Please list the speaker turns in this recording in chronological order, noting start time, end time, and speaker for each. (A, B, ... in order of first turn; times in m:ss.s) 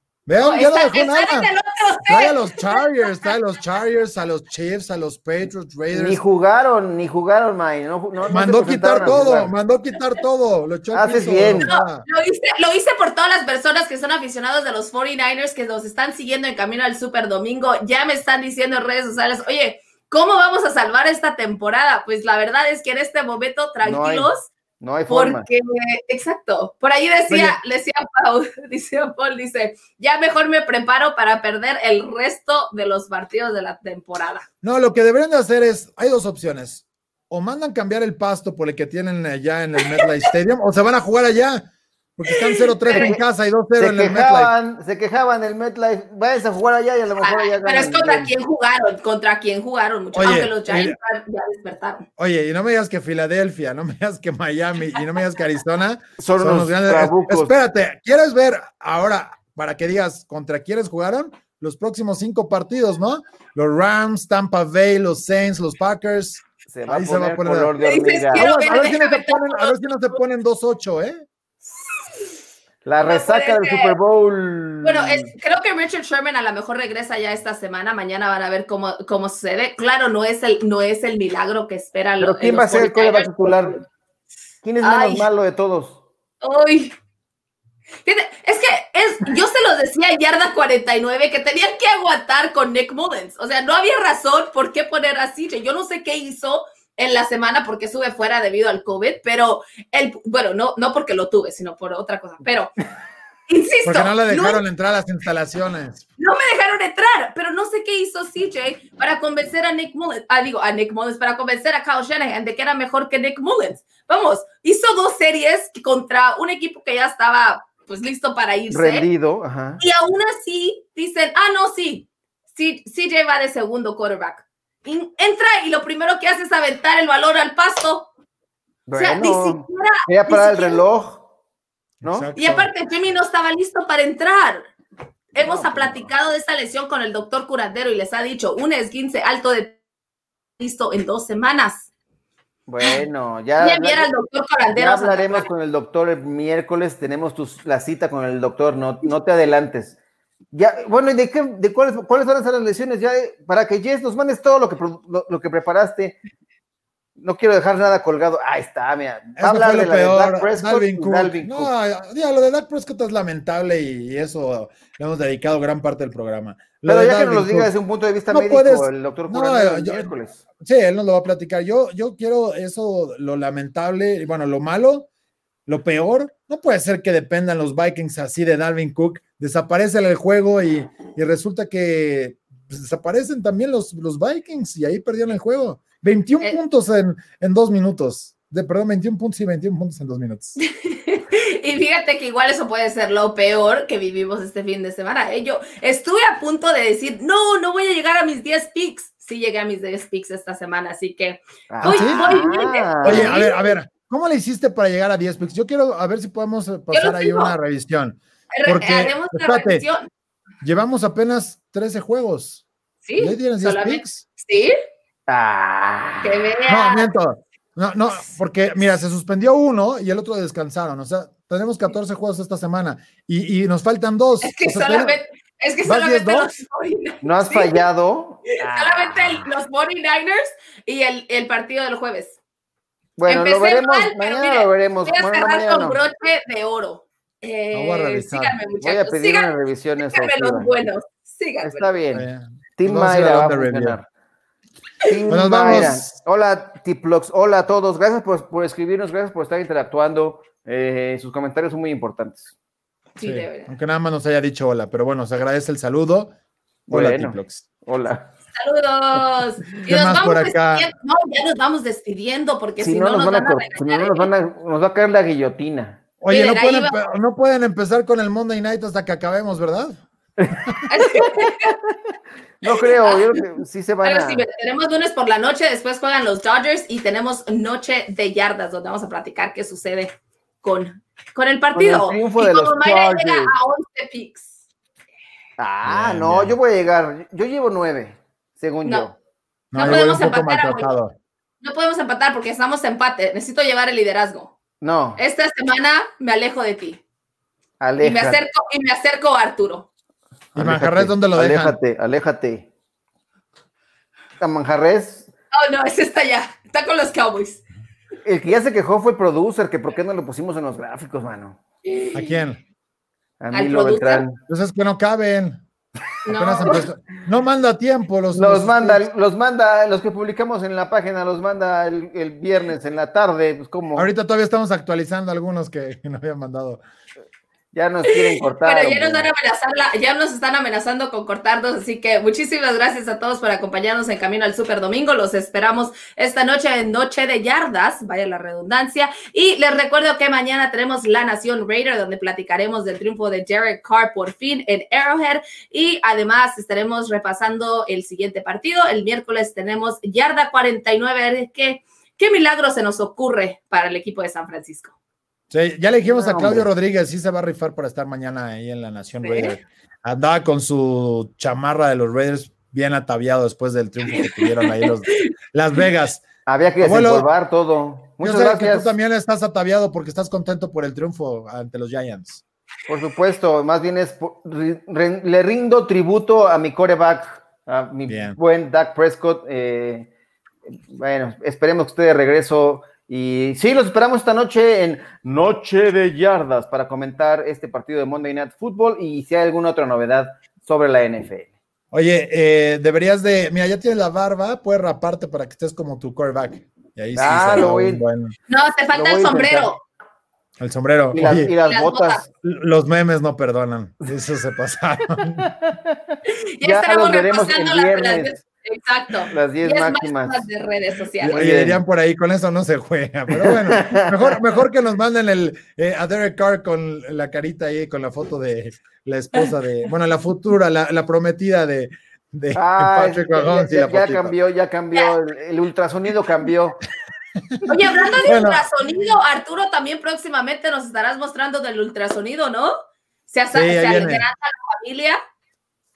0:00.3-0:01.5 A
0:00.4-0:03.2 B
0:02.0-0:06.2 A
0:05.9-0:09.5 C
0:08.3-0:12.0 A
0:10.9-0:11.6 C
0:11.6-0:24.4 B
0:23.8-0:25.4 C
0:25.1-0:34.4 B
0:27.3-0:27.6 A
0:34.6-0:44.5 A
0:42.3-0:43.1 B
0:42.9-0:43.2 C
0:43.8-0:48.3 C
0:47.2-0:52.0 B
0:50.1-0:51.0 A
0:52.2-1:07.7 A
0:56.2-0:57.5 C
1:06.7-1:08.5 C
1:07.8-1:09.7 B
1:08.3-1:11.2 A
1:12.8-1:15.3 C
1:13.0-1:14.0 B
1:14.8-1:23.8 B
1:22.2-1:23.8 C
1:24.6-1:26.0 C
1:24.8-1:25.3 B
1:26.4-1:26.9 B
1:28.0-1:42.7 B
1:43.5-1:44.6 B
1:43.8-1:46.0 A
1:46.2-1:59.0 B
1:58.7-1:59.8 C
1:59.8-2:08.1 B
2:08.9-2:11.3 C
2:09.0-2:10.8 B
2:12.0-2:12.7 A
2:12.0-2:12.3 C
2:12.4-2:14.7 B
2:15.3-2:19.8 B
2:15.4-2:16.1 C
2:20.6-2:21.9 B
2:22.7-2:24.1 C
2:23.6-2:25.5 B
2:24.7-2:30.0 C
2:30.5-2:36.2 C
2:37.2-2:41.7 C
2:39.4-2:47.7 A
2:46.8-2:50.4 C
2:48.3-2:55.1 A
2:55.7-3:10.6 A
3:10.6-3:23.8 B
3:21.7-3:23.4 C
3:21.8-3:22.4 A
3:23.0-3:29.8 A
3:26.9-3:27.5 B
3:28.5-3:30.1 B
3:30.6-3:32.6 A
3:33.0-3:34.7 B
3:33.2-3:34.2 A
3:35.3-3:36.4 C
3:36.2-3:37.1 B
3:36.7-3:45.2 A
3:44.4-3:47.8 B
3:45.8-3:46.6 A
3:47.2-3:49.5 C
3:48.6-3:52.4 B
3:53.2-3:56.0 C
3:53.3-3:59.5 B
3:57.7-3:58.6 A
3:58.8-4:00.7 C
4:00.1-4:01.9 B
4:01.6-4:02.2 C
4:02.1-4:04.0 A
4:02.8-4:04.0 C
4:05.0-4:12.5 C
4:05.3-4:06.1 A
4:13.2-4:13.7 B
4:13.2-4:16.3 A
4:16.9-4:18.3 C
4:16.9-4:17.6 A
4:18.5-4:24.2 B
4:19.8-4:20.9 A
4:22.8-4:26.0 C
4:26.2-4:30.0 A
4:26.3-4:27.0 B
4:30.9-4:31.7 B
4:31.1-4:31.9 C
4:32.6-4:34.4 C
4:32.6-4:33.2 B
4:34.0-4:40.1 B
4:40.6-4:44.5 B
4:41.7-4:43.5 C
4:45.6-4:49.1 C
4:45.8-4:46.6 A
4:49.7-4:51.2 A
4:49.7-4:50.9 B
4:51.6-4:54.5 B
4:54.8-4:55.2 C
4:55.2-4:57.0 B
4:57.8-4:58.4 C
4:58.0-4:59.8 B
5:00.5-5:01.8 A
5:00.5-5:02.7 C
5:04.4-5:05.3 C
5:05.5-5:07.6 B
5:08.2-5:11.6 C
5:11.8-5:12.4 B
5:12.1-5:12.6 A
5:13.4-5:14.4 C
5:13.5-5:14.2 B
5:14.5-5:15.6 A
5:16.2-5:16.8 B
5:16.3-5:19.0 A
5:18.3-5:24.1 C
5:23.9-5:26.8 A
5:27.7-5:29.3 C
5:28.6-5:54.9 B
5:55.5-6:06.3 A
5:56.1-5:56.7 C
5:59.2-5:59.5 B
6:06.4-6:08.9 C
6:06.8-6:07.3 A
6:08.2-6:12.4 A
6:12.9-6:20.1 C
6:18.1-6:18.4 A
6:20.7-6:31.5 C
6:31.9-6:38.3 A
6:37.1-6:38.0 C
6:38.5-6:39.8 B
6:38.9-6:39.7 C
6:40.6-6:41.5 A
6:41.1-6:42.2 C
6:41.6-6:42.2 B
6:42.4-6:45.5 A
6:45.4-6:48.4 C
6:46.6-6:51.4 B
6:49.3-6:50.4 C
6:51.2-7:04.3 A
6:51.3-6:51.8 C
6:53.4-6:54.4 C
7:02.5-7:06.8 C
7:07.7-7:12.7 B
7:08.2-7:08.7 A
7:13.3-7:15.2 B
7:13.5-7:14.2 A